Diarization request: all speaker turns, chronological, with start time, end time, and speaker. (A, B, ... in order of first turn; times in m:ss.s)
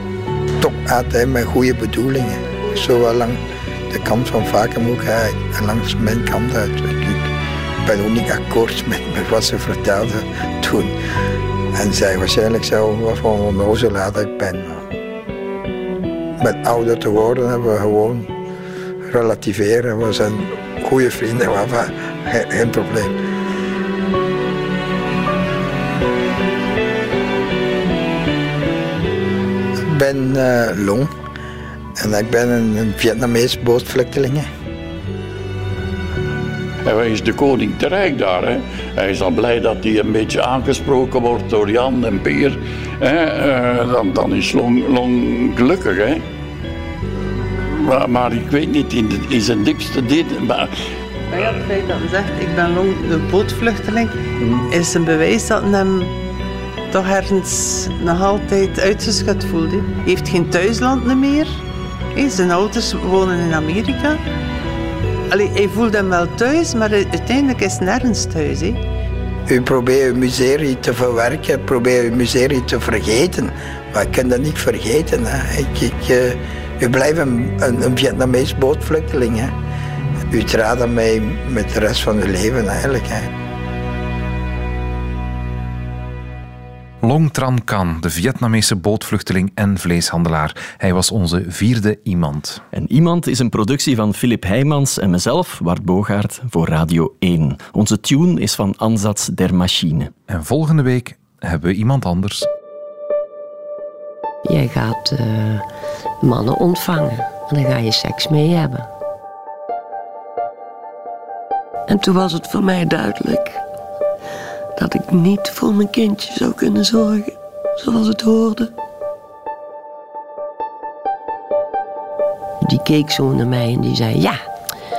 0:00.6-0:07.3 A
0:07.8-0:11.0 A
0:11.7-0:14.9 A
0:16.4-0:18.3 A
0:19.1-0:23.2 A
0:29.8-0:31.1 A
0:32.0-0:34.5 A
0:36.8-0:46.2 B
0:47.6-0:50.8 B
0:51.3-0:56.2 C
0:56.9-1:01.6 C
1:02.2-1:04.2 C
1:05.3-1:08.8 C
1:09.5-1:19.5 A
1:20.3-1:23.3 A
1:27.0-1:32.6 D
1:32.7-1:40.1 E
1:40.3-1:42.5 D
1:44.5-1:45.7 F
1:46.2-1:48.9 F
1:51.9-1:53.6 F
1:54.8-1:58.7 F
2:02.6-2:04.4 F